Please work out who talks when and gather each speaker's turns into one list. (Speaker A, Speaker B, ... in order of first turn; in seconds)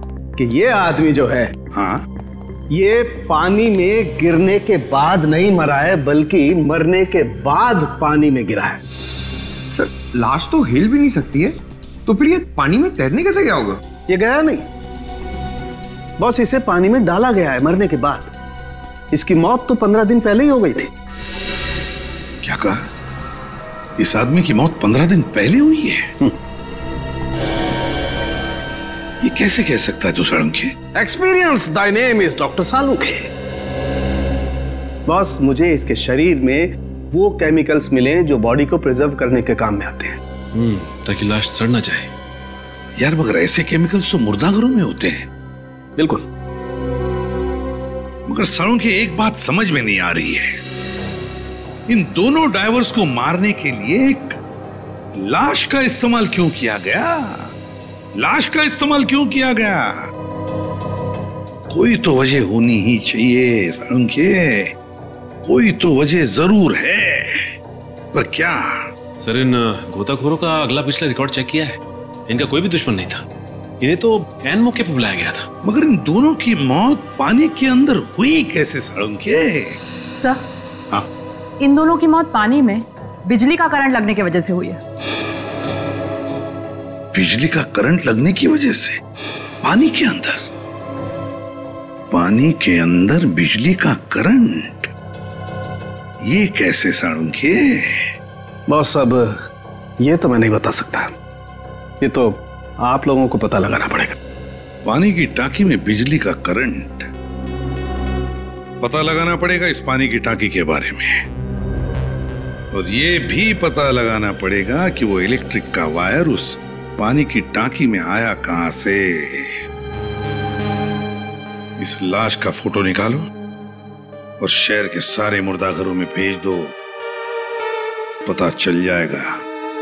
Speaker A: 0.4-1.5, 2.7-8.8, 14.1-14.6, 16.2-18.3, 19.1-20.9, 30.9-33.3, 35.1-40.2, 46.0-46.2, 98.7-99.3, 100.0-101.1, 102.0-104.2
Speaker B: 1.7-2.0, 22.4-22.8, 24.0-26.1, 29.2-30.7, 43.0-45.3, 48.3-50.6, 51.9-54.4, 55.2-57.5, 58.2-60.0, 61.7-64.7, 65.5-67.5, 68.1-68.6, 75.6-79.8, 87.1-89.0, 89.6-90.4, 92.1-94.9, 96.3-98.1, 104.8-107.1, 108.8-111.2, 112.7-119.5, 121.8-123.3, 124.4-126.7, 128.3-129.3
Speaker C: 9.7-11.6, 12.1-13.8
Speaker D: 40.6-42.1, 69.3-71.7, 72.3-73.2, 74.6-75.4
Speaker E: 81.6-84.8